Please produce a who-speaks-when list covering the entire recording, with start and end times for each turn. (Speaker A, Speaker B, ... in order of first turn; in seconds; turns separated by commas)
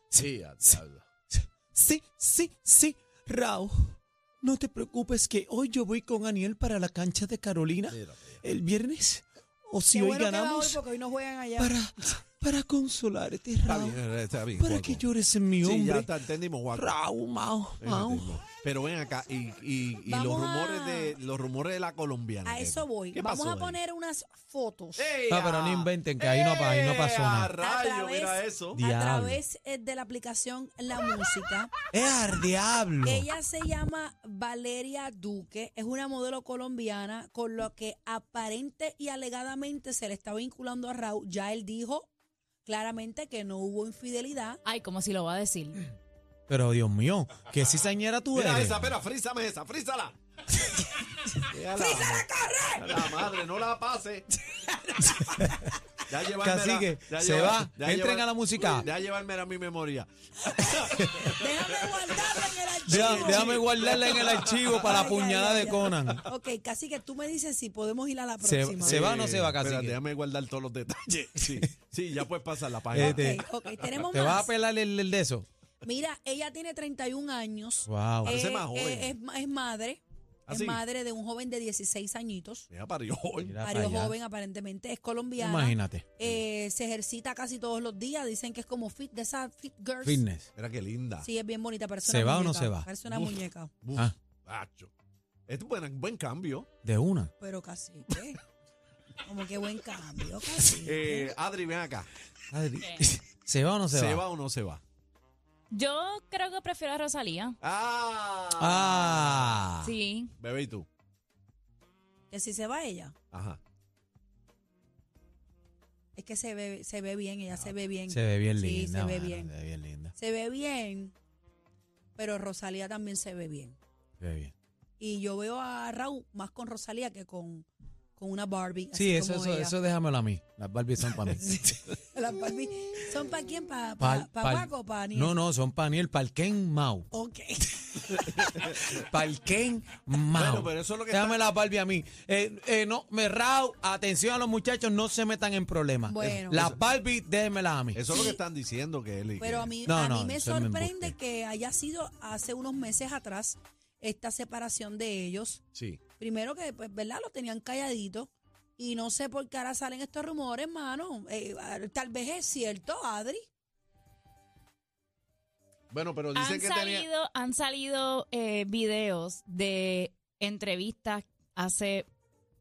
Speaker A: 0.1-1.0, Speaker B: 1.3-10.8, Speaker A: 7.9-8.4, Speaker C: 9.9-12.2, Speaker B: 11.6-14.0, Speaker A: 13.7-15.1, Speaker B: 14.6-16.1, Speaker A: 15.6-16.9, Speaker B: 16.8-18.4, Speaker A: 17.8-23.8, Speaker C: 20.1-21.2, Speaker C: 22.4-25.1, Speaker A: 25.0-28.8, Speaker B: 25.3-27.5, Speaker C: 27.6-31.7, Speaker B: 28.8-29.4, Speaker B: 31.9-33.3, Speaker C: 33.0-42.1, Speaker C: 42.6-44.6, Speaker D: 44.6-45.8, Speaker B: 46.5-49.0, Speaker A: 48.3-50.2, Speaker A: 51.5-52.2, Speaker C: 51.8-53.2, Speaker A: 52.8-54.3, Speaker C: 54.5-55.7, Speaker B: 55.1-55.7, Speaker A: 56.1-65.1, Speaker B: 56.4-58.9, Speaker C: 61.3-69.0, Speaker B: 62.9-66.2, Speaker B: 68.4-70.0, Speaker A: 68.8-73.4, Speaker B: 72.9-73.4, Speaker C: 73.0-74.5, Speaker B: 74.0-75.5, Speaker C: 75.8-82.7, Speaker B: 77.9-78.3, Speaker A: 78.2-79.2, Speaker A: 80.5-80.8, Speaker A: 82.7-83.6, Speaker B: 83.4-84.2, Speaker C: 83.6-90.2, Speaker B: 85.4-86.1, Speaker B: 90.0-90.5, Speaker A: 90.5-91.3, Speaker C: 91.2-93.7, Speaker B: 92.0-92.9, Speaker A: 93.1-94.9, Speaker A: 95.5-96.7, Speaker B: 96.8-97.3, Speaker C: 97.4-98.4, Speaker C: 99.2-101.3, Speaker A: 100.8-102.1, Speaker B: 102.5-104.2, Speaker D: 102.8-103.0, Speaker A: 103.9-104.8, Speaker D: 105.7-107.6, Speaker A: 107.6-109.7, Speaker B: 108.6-109.9, Speaker D: 109.8-110.3, Speaker A: 110.4-110.9, Speaker C: 112.3-113.1, Speaker A: 113.3-113.6, Speaker C: 116.2-119.5, Speaker B: 118.1-120.1, Speaker C: 120.2-121.1, Speaker C: 122.2-123.8, Speaker B: 124.2-124.5, Speaker C: 125.0-129.8, Speaker B: 128.9-131.8, Speaker C: 131.4-135.4, Speaker B: 134.0-137.1, Speaker C: 137.1-138.2, Speaker A: 138.3-138.9, Speaker B: 138.4-148.0, Speaker A: 140.3-141.5, Speaker C: 146.1-146.7, Speaker A: 146.5-146.8, Speaker A: 147.9-149.7, Speaker C: 148.1-148.4, Speaker C: 149.4-155.6, Speaker B: 149.8-151.2, Speaker A: 155.8-156.0, Speaker C: 156.2-163.5, Speaker A: 165.9-167.1, Speaker D: 166.3-172.1